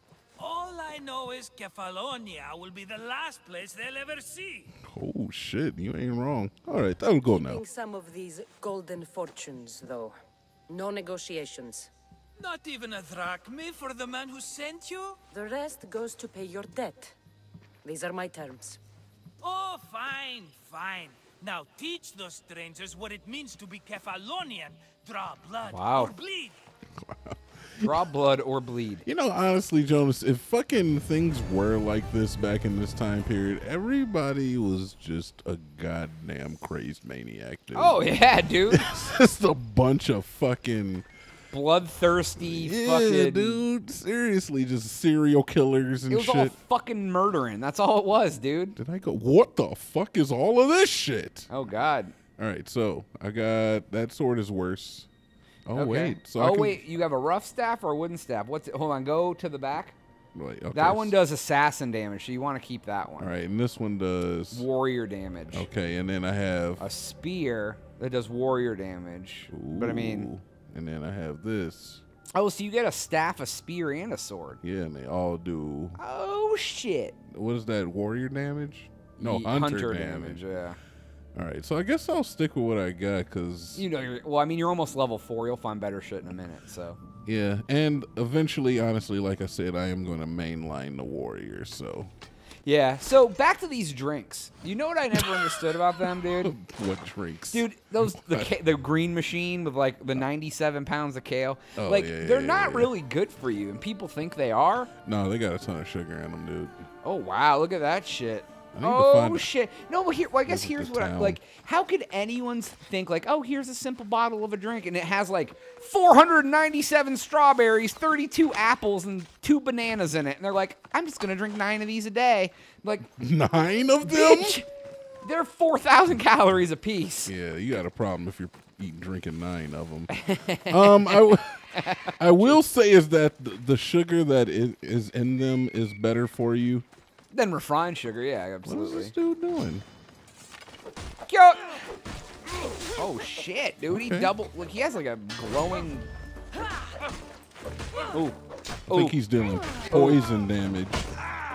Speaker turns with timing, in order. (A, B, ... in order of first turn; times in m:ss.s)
0:00.4-0:04.7 A
0:04.8-0:07.6 B
0:07.3-0:10.2 C
0:10.7-0:11.9 C
0:12.4-0:15.2 A
0:15.3-0:17.2 C
0:17.8-0:18.8 C
0:19.4-0:26.6 A
0:25.6-0:26.1 D
0:27.0-0:28.0 B
0:27.8-0:29.0 D
0:29.0-0:38.0 B
0:37.7-0:38.8 D
0:38.7-0:41.1 B
0:41.5-0:43.6 D
0:42.4-0:46.5 B
0:46.1-0:48.8 D
0:48.8-0:51.5 B
0:51.5-0:52.1 D
0:52.4-0:55.1 B
0:55.6-0:56.8 B
0:55.7-1:00.0 D
1:00.3-1:01.2 B
1:00.7-1:03.3 D
1:03.2-1:04.7 B
1:04.5-1:05.7 D
1:05.5-1:06.8 B
1:06.8-1:10.3 D
1:09.5-1:12.0 B
1:12.3-1:14.6 D
1:14.6-1:16.0 B
1:16.0-1:17.2 D
1:17.3-1:20.4 B
1:19.2-1:20.8 D
1:21.3-1:23.9 B
1:23.7-1:27.0 D
1:27.2-1:32.1 B
1:32.6-1:36.6 D
1:36.2-1:38.5 B
1:37.5-1:44.9 D
1:41.8-1:42.9 B
1:45.0-1:46.8 B
1:47.0-2:03.1 D
1:48.7-1:49.5 B
1:50.4-1:51.4 B
2:03.1-2:04.6 B
2:04.0-2:04.7 D
2:05.2-2:07.3 D
2:07.3-2:10.1 B
2:10.1-2:12.6 D
2:10.7-2:16.8 B
2:17.3-2:19.1 D
2:18.6-2:19.8 B
2:21.3-2:21.8 D
2:23.0-2:26.1 D
2:23.9-2:24.3 B
2:28.1-2:28.4 D
2:28.9-2:31.1 B
2:28.9-2:29.2 D
2:29.8-2:30.2 D